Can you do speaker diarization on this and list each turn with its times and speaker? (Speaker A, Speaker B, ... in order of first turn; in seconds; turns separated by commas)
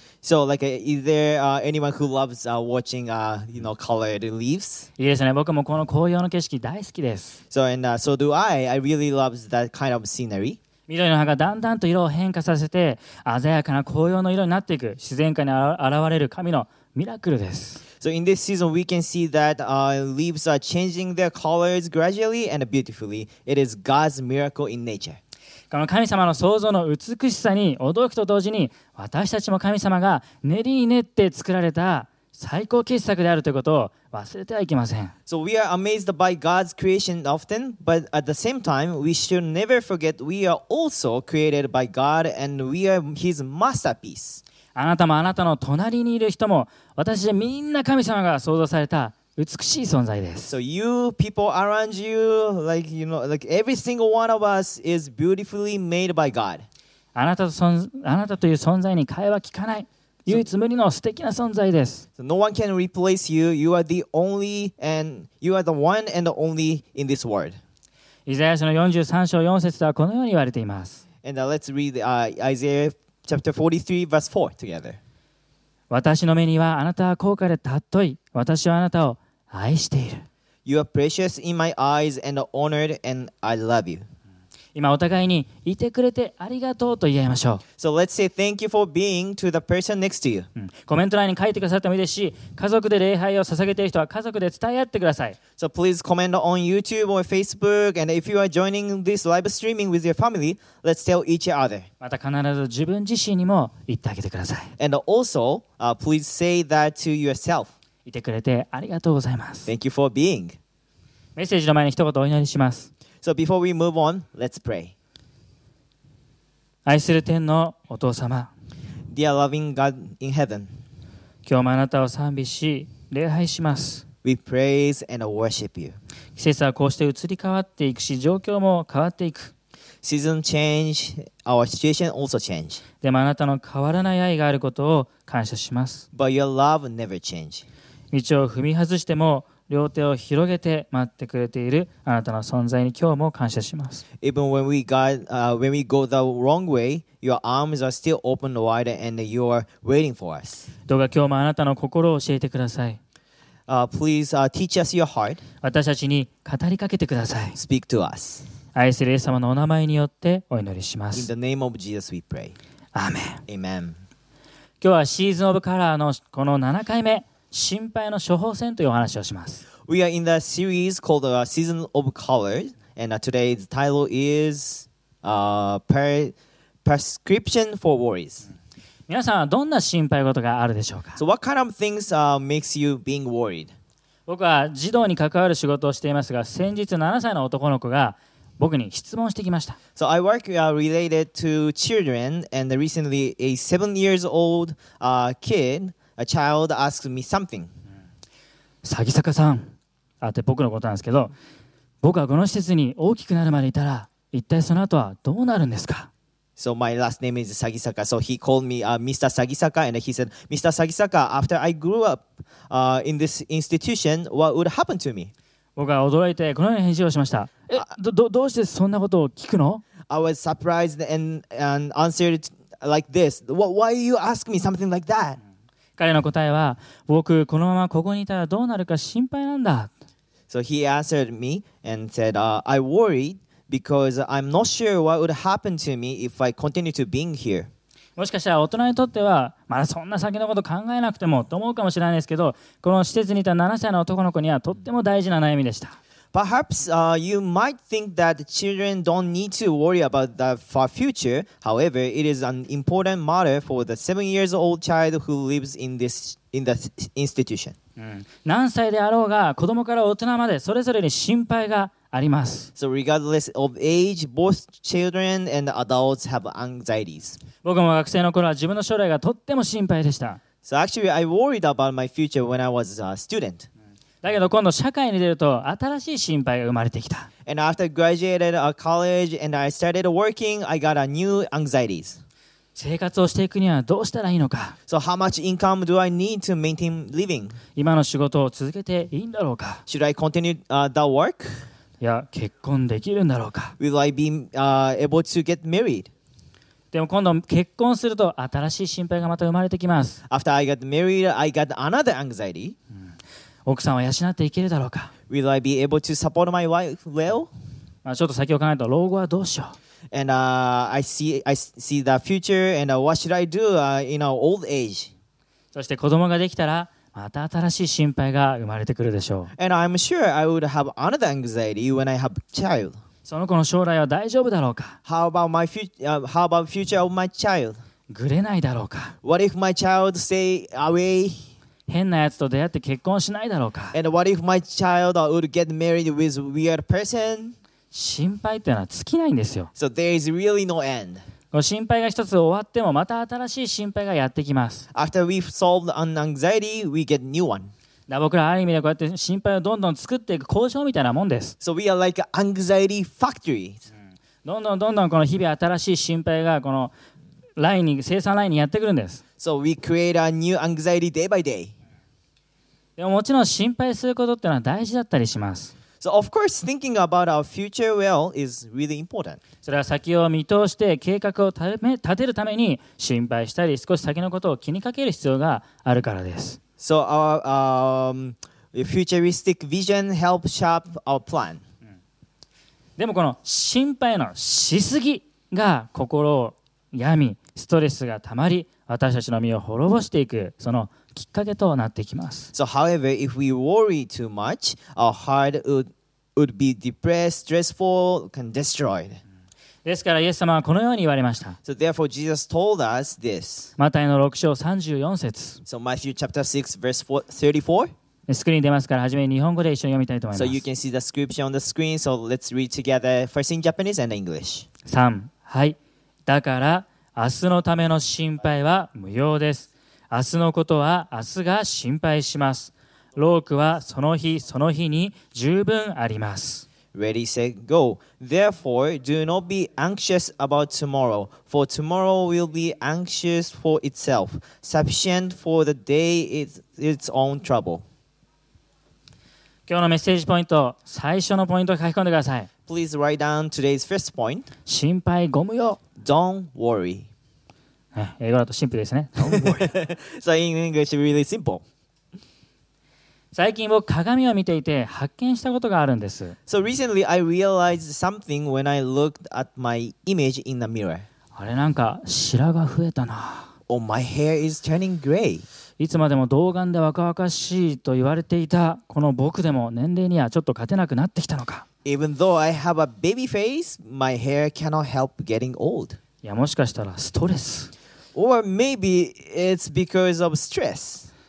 Speaker A: 0.2-4.9, Speaker B: 5.0-7.4, Speaker A: 7.5-10.6, Speaker B: 10.9-17.8, Speaker A: 18.0-25.2, Speaker B: 25.7-35.1, Speaker A: 35.3-44.4, Speaker B: 44.8-50.5, Speaker A: 50.5-56.6, Speaker B: 57.1-62.0, Speaker A: 62.2-67.6, Speaker B: 68.3-71.0, Speaker A: 71.2-75.0, Speaker B: 75.9-80.3, Speaker A: 80.7-84.0, Speaker B: 84.8-87.6, Speaker A: 87.8-90.5, Speaker B: 90.6-95.4, Speaker A: 95.6-101.9, Speaker B: 102.0-104.7, Speaker A: 104.8-107.7, Speaker B: 108.0-109.7, Speaker A: 109.7-110.6, Speaker B: 111.4-112.9, Speaker A: 113.2-114.9, Speaker B: 116.9-118.5, Speaker A: 119.1-120.7, Speaker B: 121.5-124.0, Speaker A: 124.2-126.0, Speaker B: 126.4-129.5, Speaker A: 130.0-132.8, Speaker B: 133.0-136.0, Speaker A: 136.1-137.7, Speaker B: 138.1-144.0, Speaker A: 144.2-150.7, Speaker B: 150.9-153.0, Speaker A: 153.7-155.4, Speaker B: 155.6-157.6, Speaker A: 157.6-158.5, Speaker B: 158.8-161.3, Speaker A: 161.2-162.6, Speaker B: 162.9-163.4, Speaker A: 163.5-164.0, Speaker B: 164.8-169.7, Speaker A: 169.8-178.5, Speaker B: 179.1-181.2, Speaker A: 181.2-183.7, Speaker B: 184.3-189.8, Speaker A: 190.0-197.7, Speaker B: 198.8-201.3, Speaker B: 202.0-206.1, Speaker A: 206.6-215.3, Speaker B: 215.8-219.8, Speaker A: 220.1-225.4, Speaker B: 226.0-229.9, Speaker A: 230.5-237.7, Speaker B: 238.2-246.0, Speaker A: 246.3-257.8, Speaker B: 258.0-262.7, Speaker A: 262.8-267.4, Speaker B: 267.6-270.4, Speaker A: 270.6-273.7, Speaker B: 274.2-277.3, Speaker A: 277.5-282.2, Speaker B: 282.8-284.8, Speaker A: 284.9-287.6, Speaker B: 287.8-289.8, Speaker A: 289.9-291.6, Speaker B: 292.0-293.8, Speaker A: 293.8-296.1, Speaker B: 296.9-300.2, Speaker A: 300.3-302.8, Speaker B: 303.7-305.1, Speaker A: 305.3-307.5, Speaker B: 308.1-309.8, Speaker A: 310.1-315.1, Speaker B: 315.7-319.5, Speaker A: 319.6-323.0, Speaker B: 323.3-325.0, Speaker A: 325.1-327.8, Speaker B: 328.1-329.1, Speaker A: 329.2-331.5, Speaker B: 331.9-333.9, Speaker A: 333.9-337.6, Speaker B: 337.9-339.7, Speaker A: 339.8-341.2, Speaker B: 341.5-344.9, Speaker A: 344.9-347.7, Speaker B: 348.1-351.5, Speaker A: 351.6-353.9, Speaker B: 354.4-356.9, Speaker B: 357.6-359.2, Speaker A: 359.4-361.7, Speaker B: 363.0-365.7, Speaker A: 366.0-369.4, Speaker B: 369.6-376.6, Speaker A: 376.8-381.6, Speaker B: 383.0-392.5, Speaker A: 392.5-399.2, Speaker B: 399.9-401.6, Speaker A: 401.6-403.7, Speaker B: 403.8-405.6, Speaker A: 405.7-407.9, Speaker B: 408.3-410.6, Speaker A: 410.4-414.7, Speaker B: 414.9-426.7, Speaker A: 426.9-437.9, Speaker B: 439.7-442.5, Speaker A: 442.7-444.5, Speaker B: 444.7-445.8, Speaker A: 446.0-447.1, Speaker B: 447.9-449.7, Speaker A: 449.2-451.6, Speaker B: 453.3-456.4, Speaker A: 456.5-461.1, Speaker B: 461.4-463.5, Speaker A: 463.7-465.4, Speaker B: 465.8-471.6, Speaker A: 471.9-476.0, Speaker B: 476.2-477.7, Speaker A: 478.1-481.1